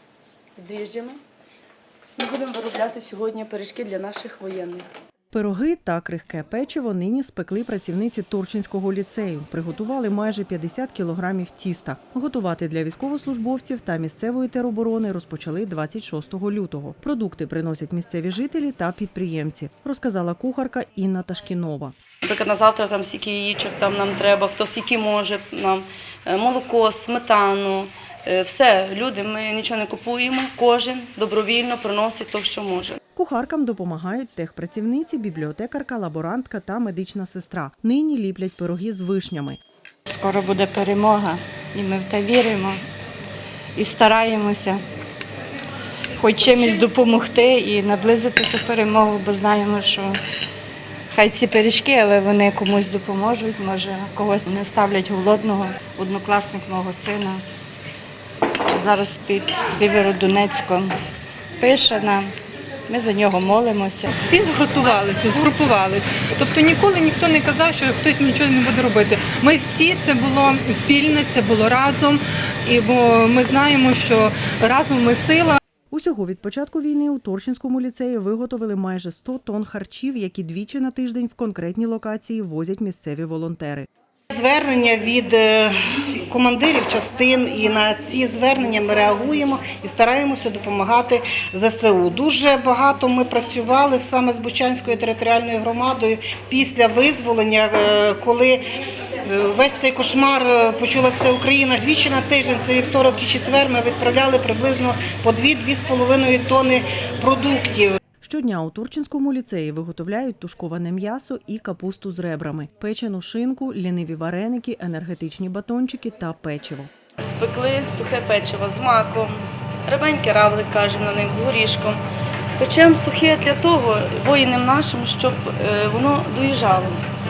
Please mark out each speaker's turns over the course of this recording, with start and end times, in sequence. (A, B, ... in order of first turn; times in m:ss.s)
0:00.6-0:01.2 A
0:02.2-0:04.8 A
0:05.3-0:21.9 B
0:22.2-0:33.0 C
0:33.1-0:39.6 B
0:40.1-0:42.8 A
0:43.7-0:44.8 A
0:46.2-0:50.2 A
0:51.1-0:57.4 A
0:58.7-1:00.9 A
1:01.6-1:02.3 A
1:02.9-1:04.1 A
1:04.1-1:15.6 D
1:15.9-1:23.9 B
1:24.3-1:38.6 E
1:39.2-1:48.0 E
1:48.2-1:56.9 B
1:57.2-2:02.0 C
2:02.6-2:07.0 C